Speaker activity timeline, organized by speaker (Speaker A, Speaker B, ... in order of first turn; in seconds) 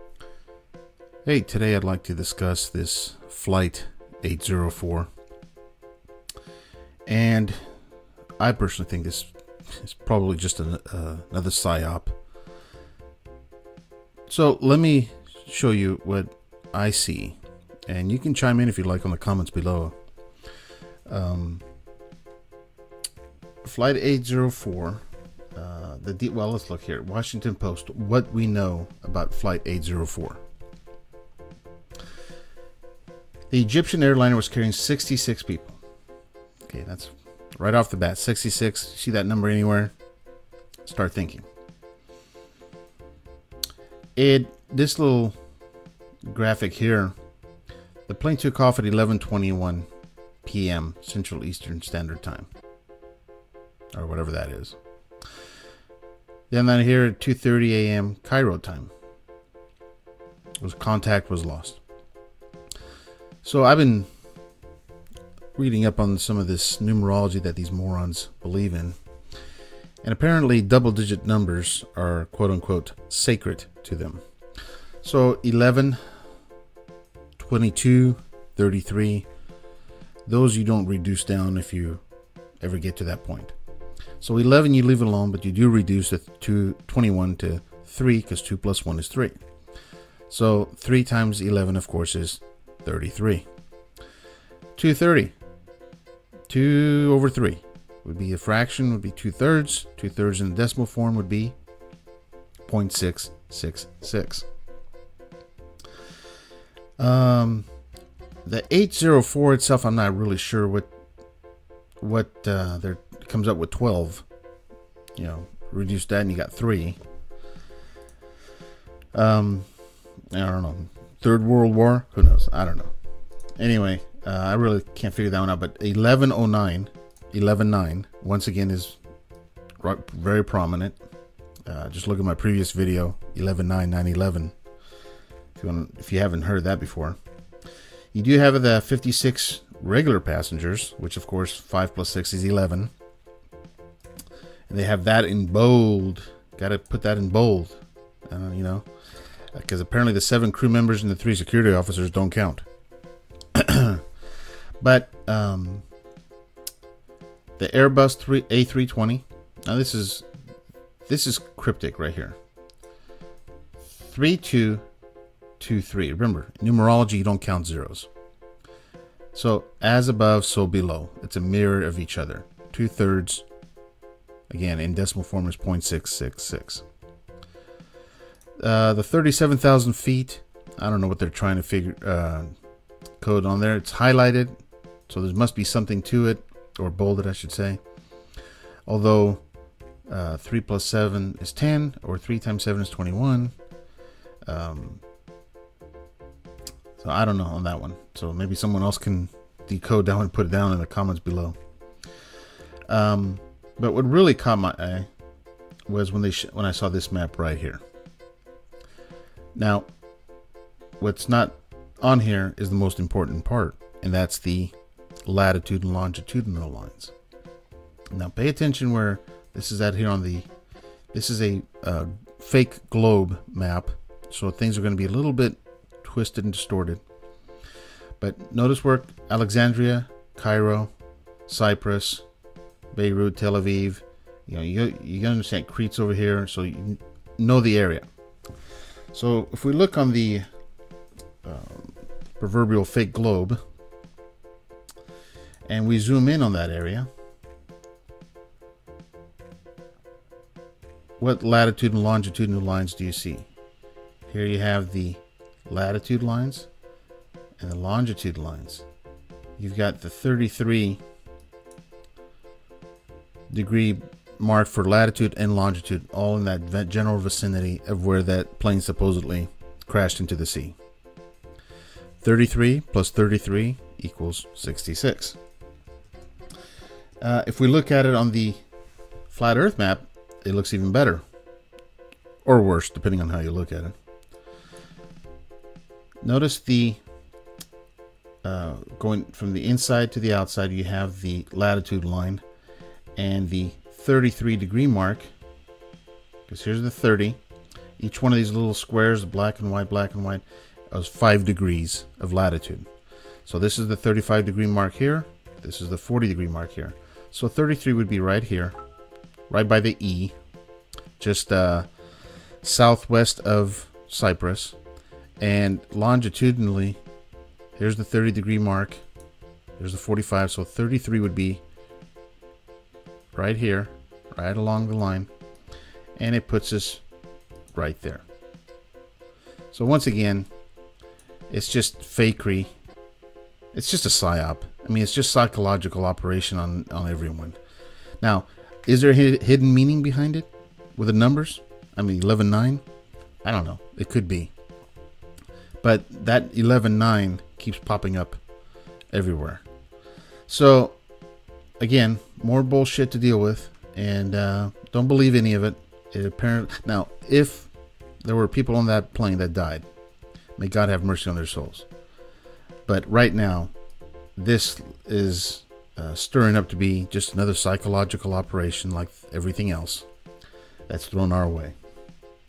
Speaker A: 1.2-5.1, 7.0-7.6, 8.4-12.2, 14.3-19.9, 21.1-21.6, 23.6-25.0, 25.5-30.4, 33.5-35.8, 36.7-39.9, 40.8-41.5, 44.1-45.4, 46.2-47.1, 48.1-49.9, 50.4-52.5, 53.9-54.8, 56.5-58.9, 60.6-61.8, 63.4-64.1, 65.5-69.0, 70.0-74.2, 75.0-76.0, 77.4-79.3, 80.2-82.0, 82.6-83.5, 84.2-89.4, 90.3-93.5, 94.8-95.3, 96.5-101.6, 102.6-104.5, 107.0-107.7, 108.4-110.9, 112.0-114.2, 115.1-117.0, 119.1-119.7, 120.3-122.9, 123.6-129.0, 129.8-131.0, 131.7-134.5, 135.6-137.2, 138.1-142.9, 144.7-148.9, 149.5-152.7, 153.5-154.0, 154.8-155.8, 157.6-160.3, 161.1-162.4, 164.0-164.8, 165.6-168.1, 169.3-173.4, 174.5-176.8, 178.6-182.5, 183.2-187.8, 188.8-189.4, 190.1-193.6, 194.4-195.0, 197.0-201.6, 202.9-205.1, 205.9-207.8, 209.5-209.9, 211.0-217.1, 218.1-220.5, 221.1-227.0, 228.2-230.9, 231.5-232.2, 232.9-238.1, 239.1-240.4, 241.4-243.6, 245.7-247.1, 251.2-253.5, 254.3-256.7, 257.6-258.8, 259.6-261.0, 263.5-270.8, 272.2-275.4, 277.2-278.6, 279.3-281.2, 282.4-283.9, 286.2-287.0, 288.4-292.4, 293.1-295.3, 296.5-297.4, 298.0-302.9, 303.4-308.8, 309.5-310.4, 311.2-311.9, 312.6-314.8, 315.4-317.0, 317.8-319.0, 319.8-321.6, 323.3-325.3, 326.1-327.0, 327.7-328.2, 329.7-330.5, 331.5-332.7, 333.7-337.6, 338.2-342.8, 343.4-344.5, 345.8-348.4, 349.1-349.6, 350.5-351.0, 351.8-359.9, 360.6-361.9, 362.9-363.7, 364.3-370.1, 370.9-371.7